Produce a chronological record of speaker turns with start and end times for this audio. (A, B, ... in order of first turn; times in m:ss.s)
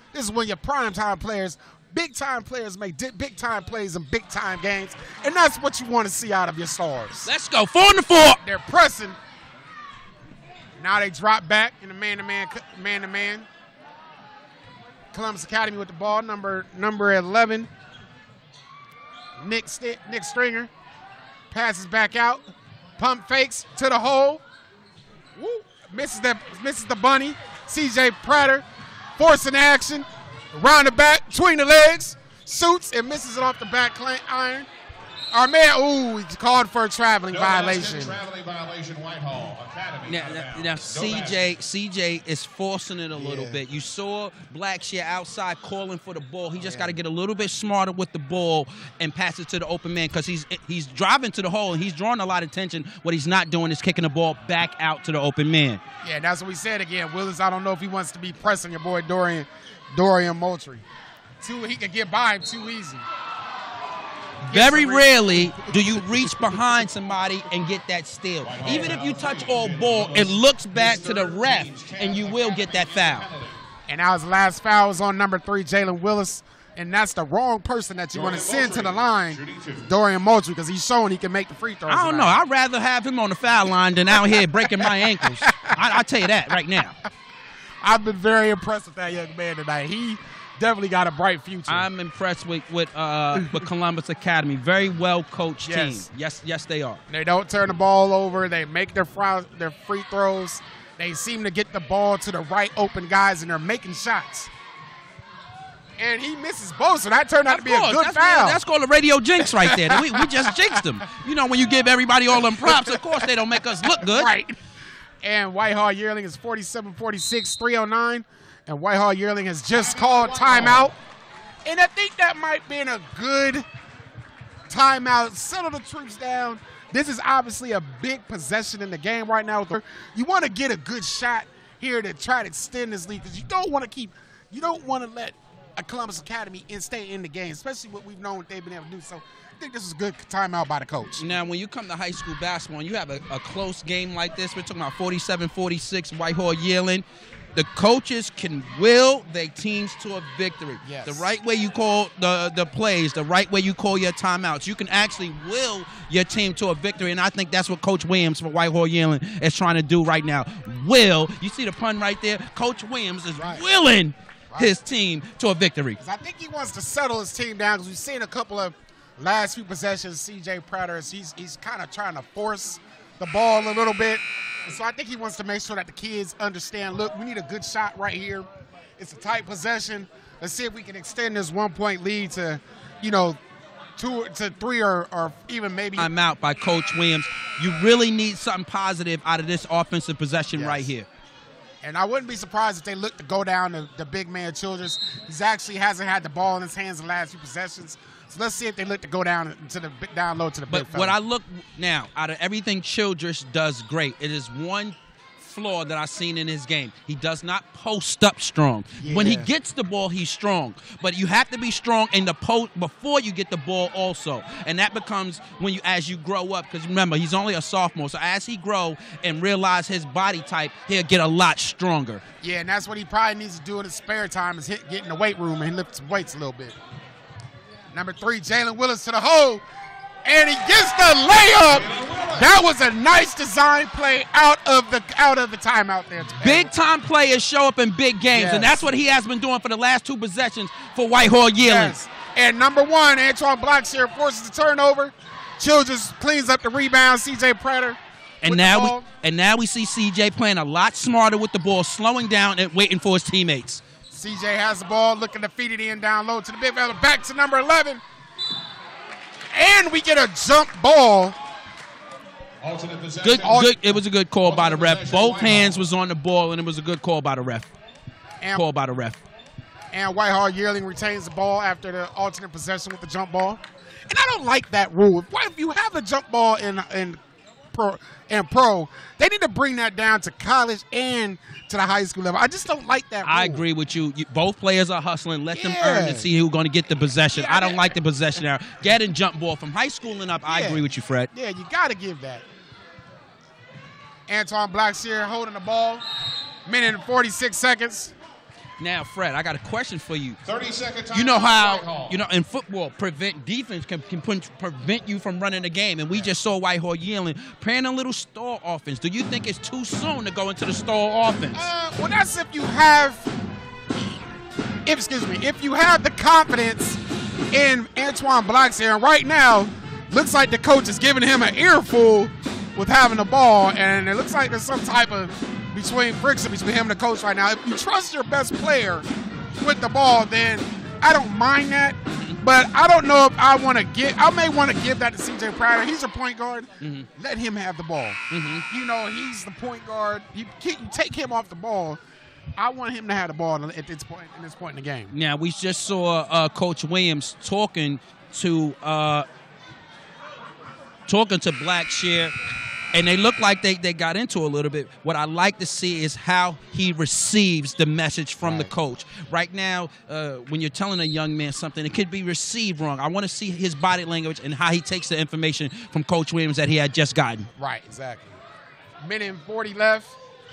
0:00.1-0:07.3 A
0:07.2-0:08.4 B
0:08.4-0:09.2 A
0:10.8-0:13.5 A
0:15.1-0:17.7 A
0:19.4-0:20.7 A
0:21.5-0:24.4 A
0:25.4-0:28.6 A
0:29.2-0:34.7 A
0:35.3-0:38.2 A
0:37.3-0:41.6 C
0:40.1-0:55.8 B
0:43.2-0:43.6 A
0:46.6-0:47.0 A
0:56.0-1:00.8 A
1:01.4-1:03.0 A
1:04.5-1:13.3 B
1:04.5-1:05.8 A
1:08.4-1:13.6 C
1:08.7-1:09.0 A
1:13.9-1:22.3 A
1:18.1-1:19.9 C
1:21.9-1:27.0 B
1:24.8-1:25.7 A
1:27.8-1:31.9 A
1:31.7-1:37.0 B
1:35.6-1:36.0 A
1:37.1-1:44.5 A
1:46.0-1:48.6 A
1:47.5-1:54.3 B
1:49.4-1:50.5 A
1:52.5-1:54.6 A
1:55.2-2:01.0 A
1:59.8-2:00.9 C
2:01.6-2:03.7 A
2:04.7-2:21.3 A
2:21.2-2:46.0 B
2:30.8-2:31.3 A
2:43.4-2:43.7 A
2:46.0-2:58.5 A
2:59.0-3:03.4 A
3:04.0-3:06.1 A
3:06.0-3:11.1 B
3:10.6-3:10.9 A
3:11.8-3:21.2 A
3:20.7-3:42.2 B
3:29.0-3:29.5 A
3:42.4-3:46.8 A
3:47.9-3:49.6 A
3:50.2-3:56.7 A
3:51.7-3:52.5 C
3:56.4-4:02.0 B
3:58.3-3:58.8 A
4:01.6-4:09.1 A
4:08.4-4:13.8 B
4:14.1-4:18.0 A
4:19.5-4:21.4 A
4:22.6-4:25.9 C
4:23.2-4:27.7 B
4:23.3-4:23.8 A
4:28.6-4:29.2 B
4:29.9-4:37.2 A
4:37.7-4:43.6 A
4:43.2-4:51.3 B
4:45.5-4:46.3 A
4:47.3-4:48.0 A
4:50.5-4:52.5 A
4:54.3-4:56.0 A
4:56.7-4:58.1 A
4:58.8-5:00.4 B
5:00.4-5:02.2 C
5:01.1-5:11.7 B
5:11.5-5:13.3 A
5:14.9-5:17.0 A
5:17.5-5:42.0 A
5:32.1-5:32.4 B
5:36.8-5:37.1 B
5:38.3-5:38.7 B
5:42.6-5:45.1 A
5:45.1-5:49.3 B
5:51.1-5:52.3 B
5:52.9-6:07.5 B
5:58.4-5:58.7 A
6:07.6-6:08.4 A
6:09.0-6:10.2 A